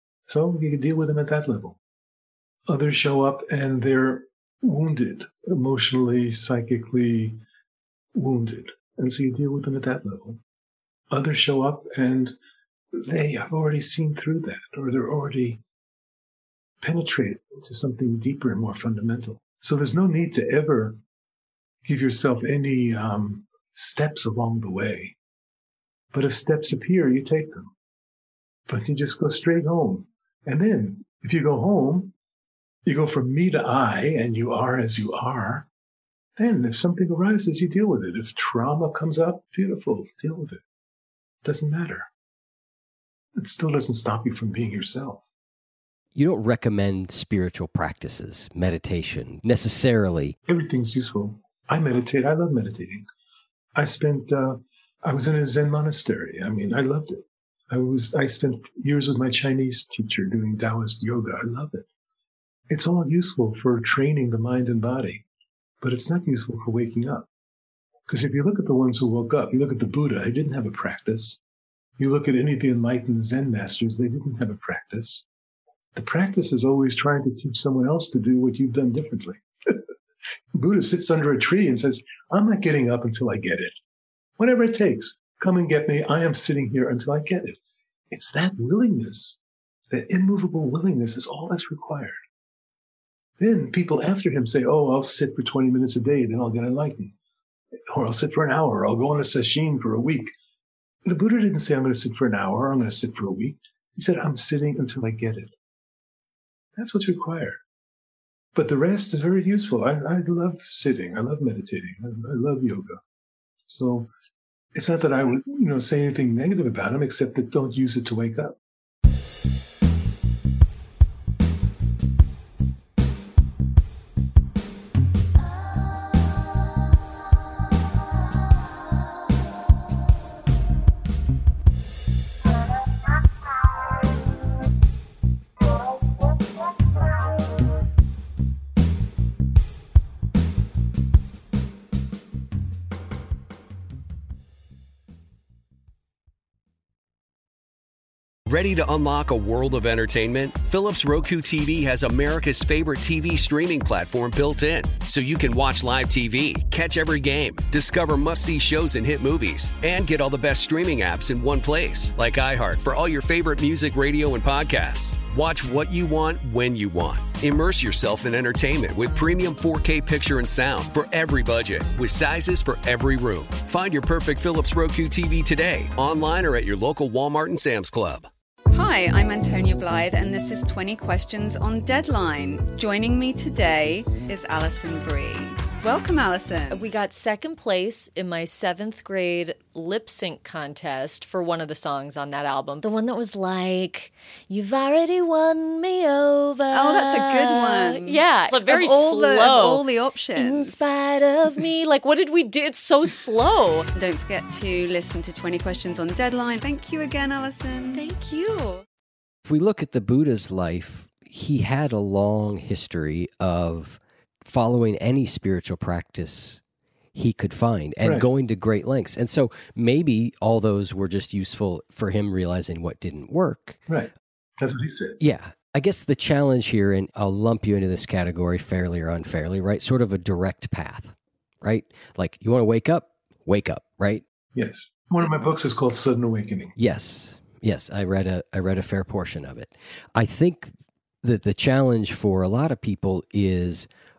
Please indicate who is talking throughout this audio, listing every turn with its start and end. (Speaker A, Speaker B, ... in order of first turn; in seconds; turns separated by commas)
Speaker A: 0.2-1.8, Speaker A: 2.7-7.4, Speaker A: 8.1-10.4, Speaker A: 11.1-12.3, Speaker A: 12.9-15.6, Speaker A: 16.8-21.0, Speaker A: 21.8-25.1, Speaker A: 26.1-27.7, Speaker A: 28.7-32.1, Speaker A: 32.9-35.7, Speaker A: 36.4-40.6, Speaker A: 41.4-42.1, Speaker A: 43.4-45.2, Speaker B: 46.1-50.4, Speaker A: 50.5-53.1, Speaker A: 53.7-61.9, Speaker A: 62.7-65.2, Speaker A: 65.8-67.3, Speaker A: 68.1-71.4, Speaker A: 72.0-75.2, Speaker A: 75.9-79.8, Speaker A: 80.5-83.7, Speaker A: 84.4-87.6, Speaker A: 88.1-89.4, Speaker A: 89.9-92.2, Speaker A: 93.4-97.1, Speaker A: 97.9-100.3, Speaker A: 101.0-105.5, Speaker A: 106.8-107.6, Speaker A: 108.5-113.0, Speaker A: 113.7-114.1, Speaker A: 114.7-118.6, Speaker C: 148.5-178.3, Speaker D: 178.7-186.8, Speaker E: 186.7-199.8, Speaker D: 196.7-200.9, Speaker E: 200.3-203.9, Speaker D: 203.9-208.2, Speaker E: 207.9-208.8, Speaker B: 209.4-216.6, Speaker B: 217.1-223.8, Speaker A: 218.0-218.3, Speaker A: 223.9-225.2, Speaker B: 225.2-234.2, Speaker A: 234.5-236.8, Speaker B: 236.8-243.9